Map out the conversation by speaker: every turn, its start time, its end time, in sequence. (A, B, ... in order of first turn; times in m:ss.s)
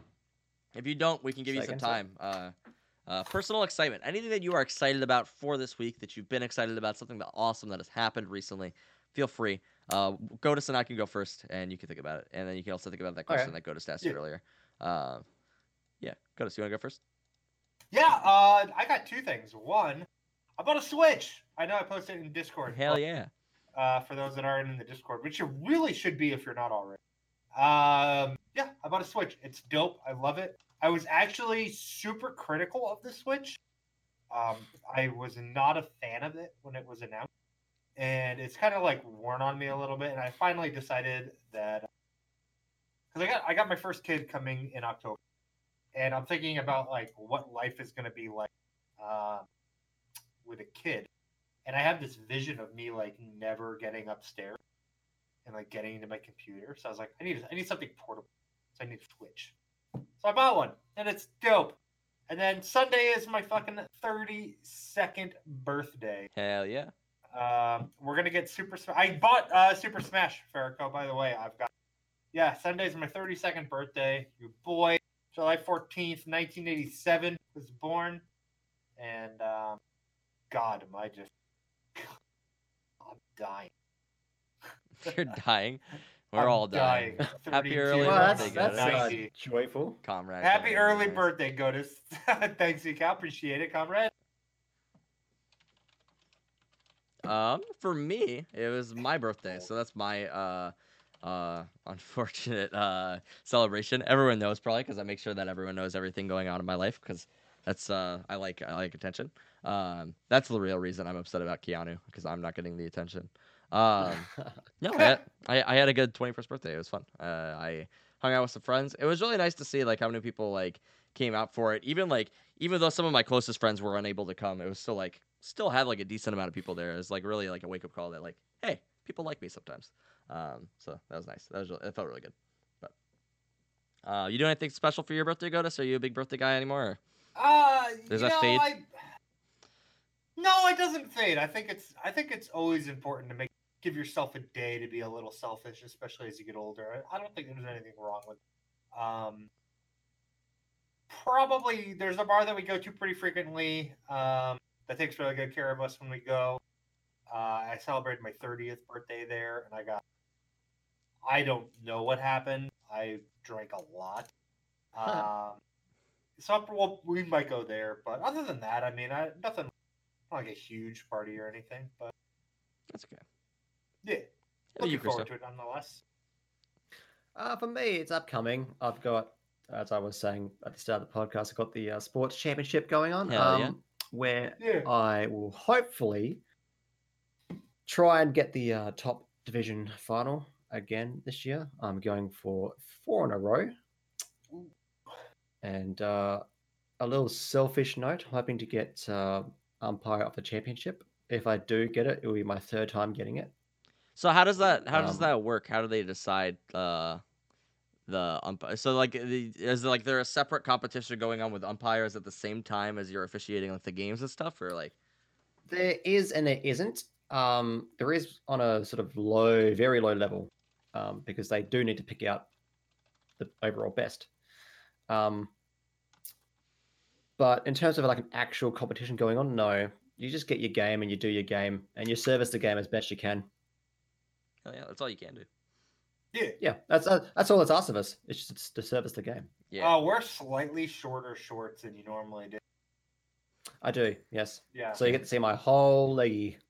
0:00.7-0:02.5 A
0:01.5-0:02.0 B
0:03.1-0:15.2 A
0:13.3-0:13.5 B
0:16.0-0:17.0 A
0:17.9-0:20.0 C
0:20.6-0:23.0 C
0:22.7-0:23.3 A
0:23.8-0:27.0 C
0:27.6-0:33.6 C
0:34.3-0:37.3 C
0:38.0-0:41.9 C
0:43.1-0:45.2 C
0:45.9-0:49.4 C
0:50.4-0:51.1 C
0:51.7-0:54.6 C
0:55.4-0:59.5 C
1:00.2-1:01.8 C
1:02.3-1:06.3 C
1:06.3-1:06.9 A
1:07.3-1:11.7 C
1:12.3-1:18.2 C
1:19.0-1:19.8 C
1:20.5-1:21.3 C
1:23.0-1:23.7 C
1:25.0-1:29.2 A
1:26.4-1:29.3 C
1:28.0-1:30.0 B
1:30.0-1:31.3 A
1:30.4-1:34.1 C
1:37.2-1:54.3 A
1:39.4-1:39.7 C
1:54.0-1:54.6 B
1:54.8-2:12.9 A
2:14.1-2:17.0 A
2:17.4-2:18.9 C
2:18.1-2:18.7 A
2:20.4-2:28.4 C
2:28.9-2:29.5 C
2:31.1-2:36.6 C
2:37.3-2:40.0 C
2:41.2-2:44.3 C
2:44.9-2:45.6 C
2:46.4-2:49.7 C
2:50.3-2:52.1 C
2:52.9-2:53.2 A
2:54.0-2:54.3 C
2:54.8-2:55.3 A
2:54.8-2:56.0 C
2:57.3-3:06.4 B
3:03.2-3:03.7 A
3:04.6-3:04.9 C
3:07.9-3:13.7 B
3:14.5-3:15.2 C
3:15.6-3:16.4 B
3:17.0-3:23.5 B
3:24.2-3:27.2 A
3:24.9-3:25.3 B
3:28.1-3:34.9 A
3:35.7-3:42.5 B
3:43.4-3:44.3 B
3:45.1-3:45.5 B
3:47.4-3:53.5 B
3:54.6-3:55.5 A
3:56.6-3:59.5 B
3:59.7-4:00.0 A
3:59.8-4:02.6 C
4:03.8-4:06.6 B
4:04.7-4:05.0 C
4:05.0-4:05.2 A